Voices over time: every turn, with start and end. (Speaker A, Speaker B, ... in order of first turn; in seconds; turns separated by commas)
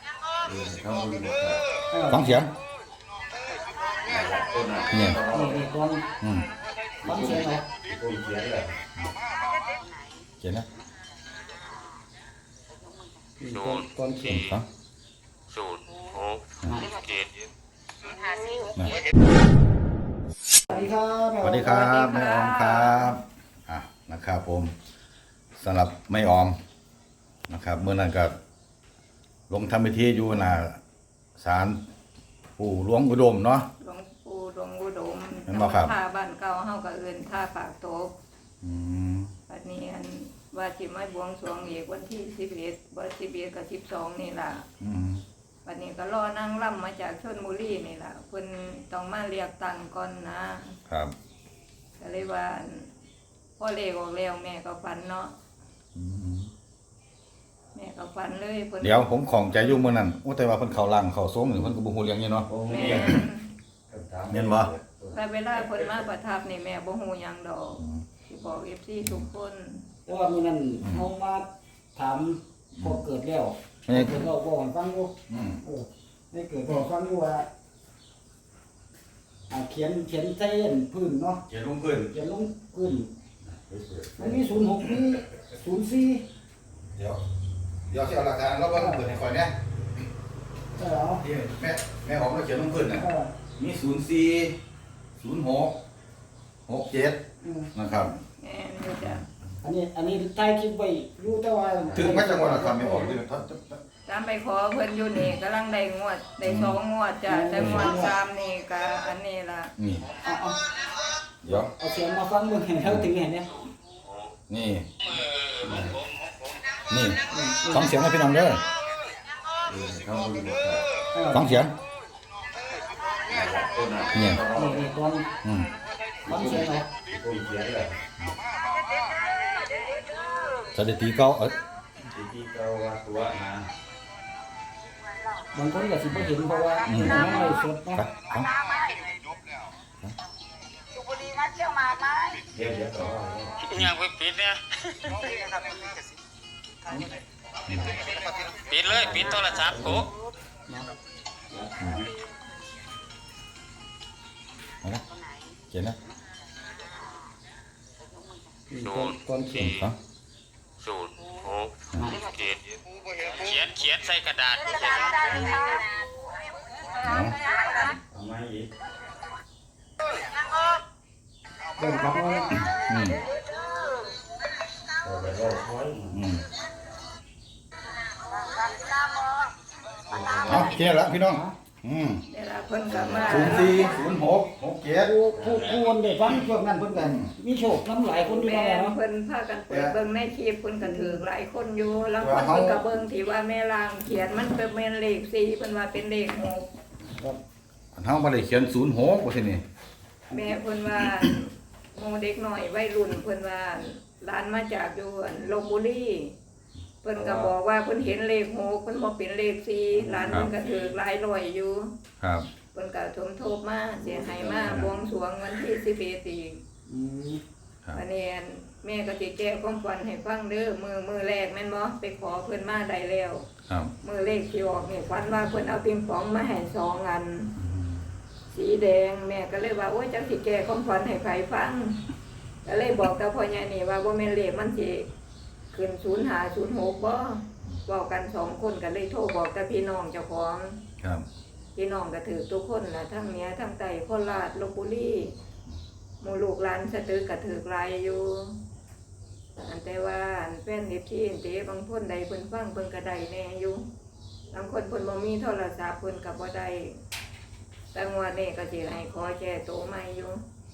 Speaker A: 0.4-1.6, Speaker B: 1.9-2.4, Speaker C: 2.1-2.5, Speaker A: 4.0-5.7, Speaker C: 4.9-5.2, Speaker B: 5.3-6.0, Speaker A: 7.0-8.8, Speaker B: 7.0-7.6, Speaker C: 10.4-10.7, Speaker B: 13.4-14.5, Speaker C: 14.2-14.7, Speaker D: 15.5-16.3, Speaker C: 18.7-19.0, Speaker B: 20.7-22.0, Speaker C: 21.4-24.7, Speaker E: 21.7-23.1, Speaker C: 25.6-26.6, Speaker C: 27.5-28.3, Speaker C: 29.5-30.8, Speaker C: 31.4-31.8, Speaker C: 32.6-33.7, Speaker E: 33.8-38.1, Speaker C: 35.5-35.9, Speaker C: 38.6-39.3, Speaker E: 39.5-44.6, Speaker C: 44.8-45.2, Speaker E: 45.6-50.8, Speaker C: 50.9-51.1, Speaker E: 52.0-52.9, Speaker E: 53.6-55.3, Speaker C: 55.9-56.5, Speaker E: 57.7-59.9, Speaker C: 58.8-63.1, Speaker A: 62.5-63.2, Speaker E: 62.7-63.5, Speaker A: 63.9-65.2, Speaker C: 64.3-64.7, Speaker E: 65.1-69.8, Speaker C: 69.0-69.3, Speaker B: 70.0-77.5, Speaker C: 73.8-74.2, Speaker C: 75.3-75.6, Speaker B: 79.5-81.4, Speaker C: 81.5-82.1, Speaker B: 82.1-83.1, Speaker A: 83.7-84.5, Speaker B: 84.2-86.2, Speaker C: 87.9-89.5, Speaker B: 88.7-89.2, Speaker B: 90.8-91.2, Speaker C: 91.2-94.5, Speaker B: 92.9-93.3, Speaker C: 95.2-95.8, Speaker C: 96.7-97.2, Speaker B: 97.4-97.7, Speaker C: 97.7-98.1, Speaker E: 98.2-99.2, Speaker B: 99.6-103.2, Speaker C: 101.9-103.8, Speaker E: 104.0-109.7, Speaker C: 106.4-106.8, Speaker B: 107.3-108.2, Speaker C: 107.5-107.9, Speaker C: 109.8-110.1, Speaker B: 110.2-110.6, Speaker C: 111.4-111.7, Speaker B: 111.5-113.6, Speaker C: 114.5-114.9, Speaker C: 116.9-118.6, Speaker B: 117.3-117.9, Speaker A: 119.7-120.8, Speaker B: 121.1-121.7, Speaker C: 121.3-121.7, Speaker A: 123.3-124.9, Speaker C: 124.1-124.4, Speaker B: 124.5-125.3, Speaker B: 126.2-126.9, Speaker A: 126.2-128.0, Speaker C: 130.7-131.6, Speaker A: 132.0-133.7, Speaker B: 135.5-138.0, Speaker C: 136.8-138.5, Speaker A: 142.4-143.7, Speaker D: 143.8-144.5, Speaker C: 147.7-148.0, Speaker D: 148.7-150.0, Speaker A: 148.9-150.0, Speaker B: 149.7-149.9, Speaker B: 151.5-152.0, Speaker C: 155.7-155.9, Speaker B: 158.7-159.8, Speaker C: 159.5-159.9, Speaker D: 160.8-161.7, Speaker B: 161.9-162.2, Speaker D: 163.4-165.7, Speaker C: 165.3-165.6, Speaker C: 167.0-167.3, Speaker A: 168.0-168.7, Speaker B: 171.8-172.6, Speaker C: 172.7-173.2, Speaker A: 175.0-176.2, Speaker C: 176.1-176.4, Speaker A: 180.1-180.7, Speaker C: 180.5-182.2, Speaker B: 181.3-181.5, Speaker E: 182.3-184.0, Speaker A: 182.9-183.6, Speaker C: 183.3-185.1, Speaker B: 185.0-189.0, Speaker A: 185.3-185.7, Speaker C: 187.0-187.3, Speaker E: 188.1-196.7, Speaker C: 189.7-189.9, Speaker B: 190.8-191.2, Speaker C: 192.2-192.8, Speaker C: 197.9-199.6, Speaker B: 200.3-200.6, Speaker E: 200.3-206.3, Speaker E: 207.0-211.9, Speaker B: 209.9-210.5, Speaker C: 212.2-212.5, Speaker E: 212.7-216.6, Speaker B: 214.0-215.0, Speaker B: 216.9-217.4, Speaker E: 217.9-223.5, Speaker E: 224.0-227.5, Speaker C: 227.6-228.0, Speaker E: 228.5-232.0, Speaker E: 232.6-235.1, Speaker E: 235.7-240.8, Speaker C: 241.0-241.2, Speaker E: 241.7-245.3, Speaker E: 246.2-248.6, Speaker E: 249.6-253.8, Speaker E: 254.5-257.0, Speaker E: 257.9-260.4